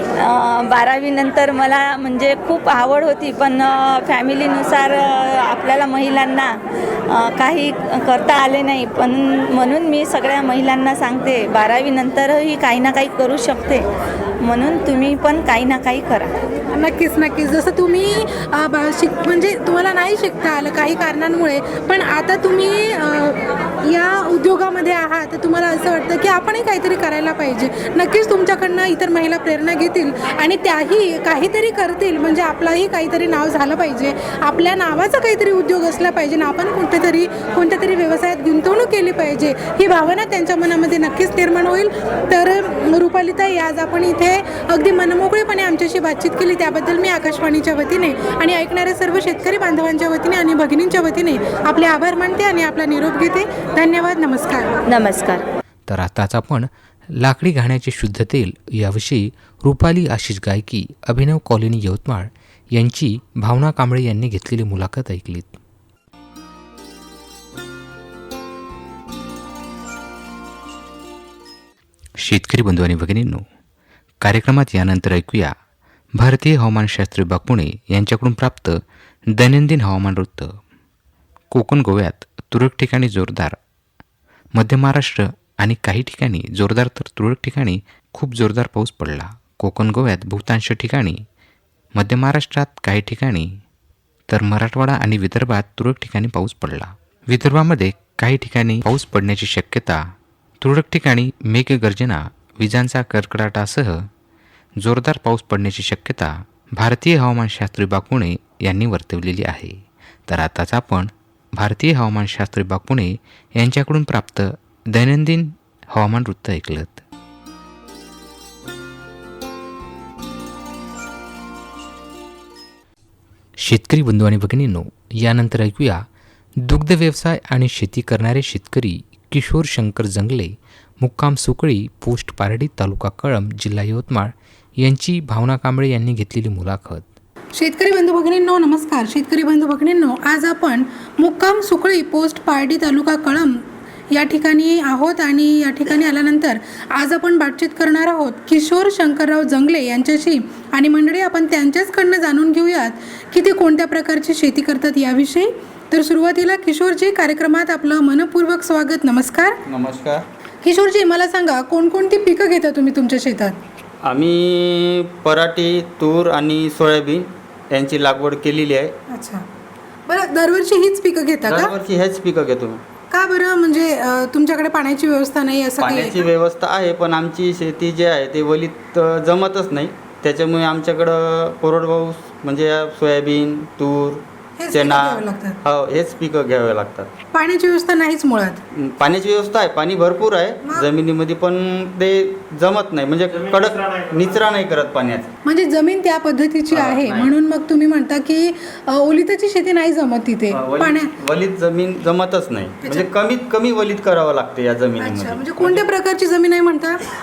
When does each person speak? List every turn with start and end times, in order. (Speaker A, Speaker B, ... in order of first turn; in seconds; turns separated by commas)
Speaker A: 0.1-13.9, Speaker A: 14.4-16.4, Speaker B: 16.7-54.8, Speaker A: 54.9-55.5, Speaker C: 55.9-65.6, Speaker C: 72.2-73.4, Speaker C: 74.2-75.5, Speaker C: 76.2-78.8, Speaker C: 79.3-80.5, Speaker C: 81.5-83.6, Speaker C: 84.5-91.2, Speaker C: 92.0-93.5, Speaker C: 94.3-100.0, Speaker C: 100.6-104.1, Speaker C: 104.8-117.0, Speaker C: 123.6-126.1, Speaker C: 126.6-137.1, Speaker B: 137.6-159.6, Speaker D: 159.7-160.2, Speaker B: 160.6-163.6, Speaker D: 164.0-168.9, Speaker B: 169.1-169.4, Speaker B: 170.1-171.7, Speaker D: 171.5-172.8, Speaker B: 173.1-176.2, Speaker D: 175.8-187.1, Speaker B: 184.6-185.6, Speaker B: 187.3-188.6, Speaker D: 188.7-195.3, Speaker B: 195.4-201.1, Speaker D: 196.7-197.3, Speaker D: 200.5-205.8, Speaker B: 202.8-203.1, Speaker B: 205.0-207.0